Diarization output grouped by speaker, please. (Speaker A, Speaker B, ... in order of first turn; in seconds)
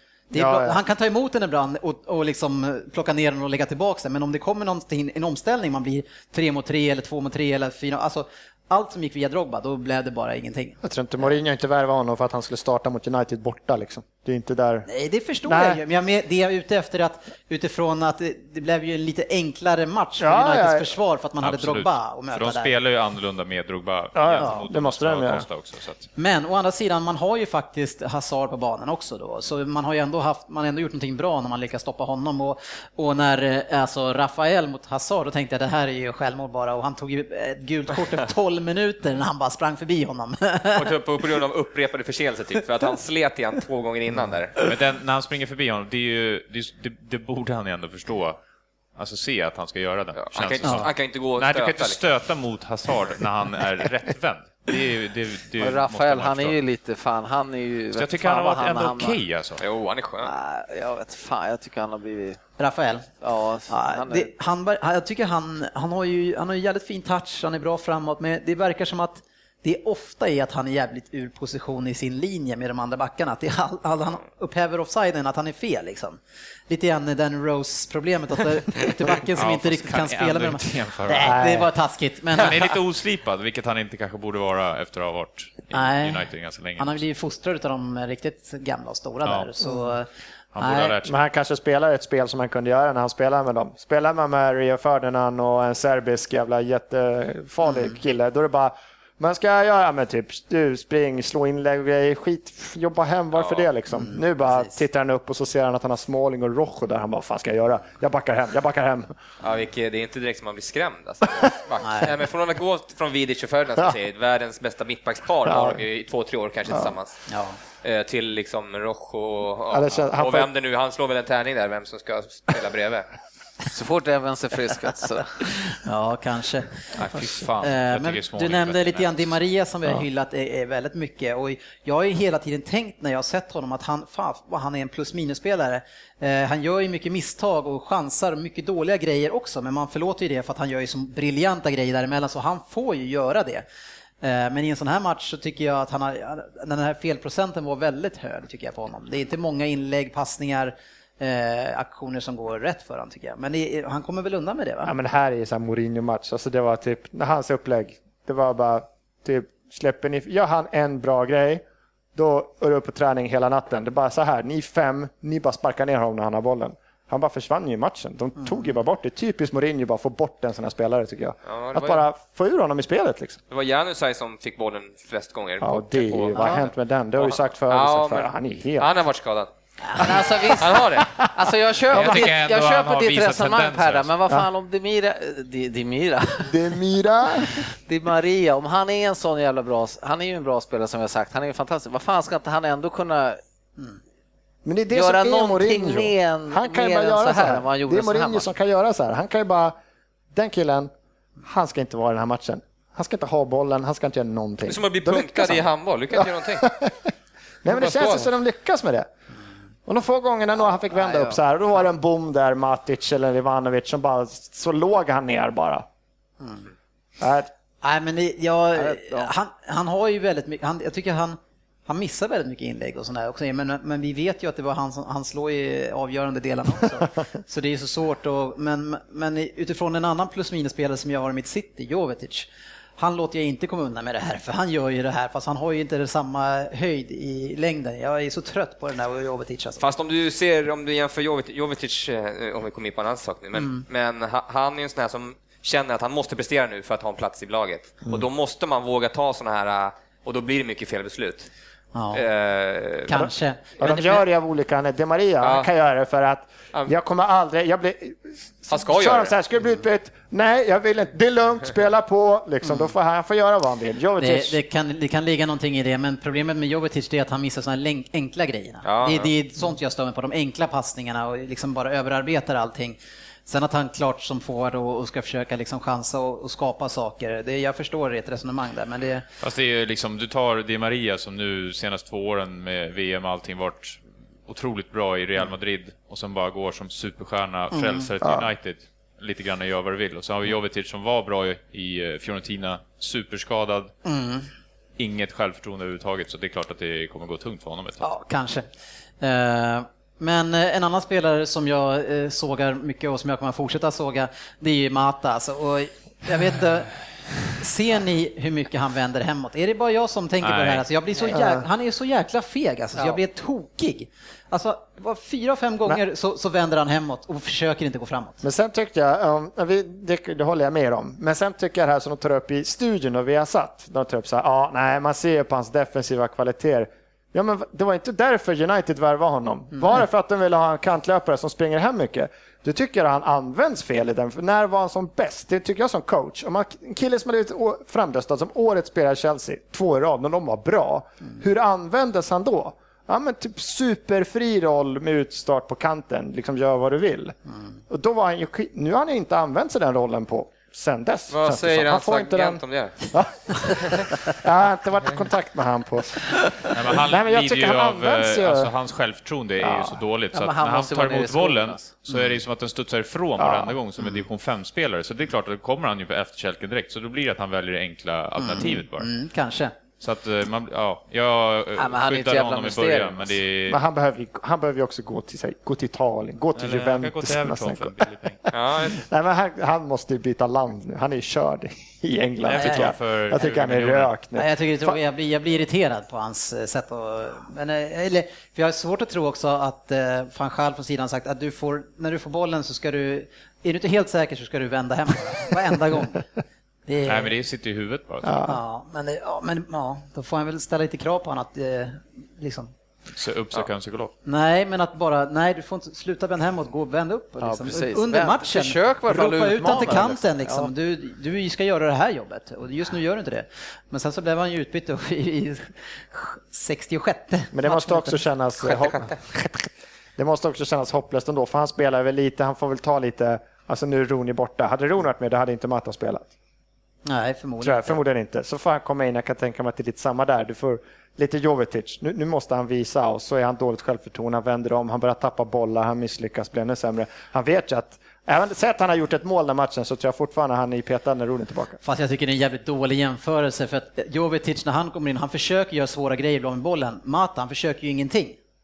Speaker A: 0.3-10.8, 14.9-22.7, 26.2-40.9, 50.6-50.9, 62.6-63.1, 63.7-82.6, 85.7-86.2, 86.8-90.9, 97.6-97.9, 103.9-104.8, 111.8-112.1, 117.3-117.6, 125.8-143.6, 144.2-154.9, 168.4-168.7, 176.4-176.6, 216.4-216.7, 217.8-239.9, 243.6-243.8, 251.9-252.2, 253.1-254.2, 262.6-262.9, 264.2-279.2, 287.7-288.1, 294.0-294.4, 298.0-298.7, 299.2-306.9, 307.5-318.4, 362.1-362.4, 368.4-369.7, 382.6-382.9, 384.4-396.2, 396.9-397.3, 398.4-402.7, 404.2-418.2, 427.0-428.0, 441.8-448.4
Speaker B: 0.3-0.8, 10.8-14.9, 15.4-15.8, 20.2-20.9, 24.1-25.4, 81.1-81.7, 91.0-109.1, 115.5-115.8, 116.7-116.9, 119.7-120.5, 154.8-161.6, 162.1-173.4, 175.6-178.9, 181.0-182.3, 186.5-187.6, 194.6-199.8, 200.3-200.9, 201.4-207.1, 207.6-209.1, 209.9-215.8, 217.2-217.5, 253.1-264.6, 288.2-288.5, 311.2-311.6, 318.4-347.4, 347.9-358.7, 359.6-360.0, 363.4-363.8, 373.7-385.0, 398.2-398.6, 417.5-426.3, 427.6-441.8
Speaker C: 21.4-26.1, 44.6-48.4, 49.0-56.6, 57.9-59.6, 79.2-81.4, 82.4-87.0, 89.2-89.5, 90.5-91.1, 126.9-129.3, 181.9-184.1, 279.4-293.9, 295.0-298.1, 310.4-310.9, 356.7-369.1, 370.0-373.8, 376.5-378.4, 382.4-384.1, 397.1-398.4, 403.1-404.1
Speaker D: 40.7-44.5, 50.2-52.0, 59.6-60.3, 103.3-103.7, 109.4-117.2, 117.8-123.1, 171.5-172.0, 173.5-179.5, 180.5-181.1, 204.7-206.7, 207.7-208.3, 239.8-251.5, 252.1-253.2, 255.4-255.7, 258.7-259.3, 268.8-269.3, 351.3-352.9, 378.5-379.0
Speaker E: 55.6-59.2, 60.2-62.4, 63.2-64.3, 123.7-125.5, 179.9-186.7, 187.4-193.4, 194.9-198.5, 210.9-211.4, 218.7-219.3, 360.3-361.9, 371.8-373.4, 407.4-410.7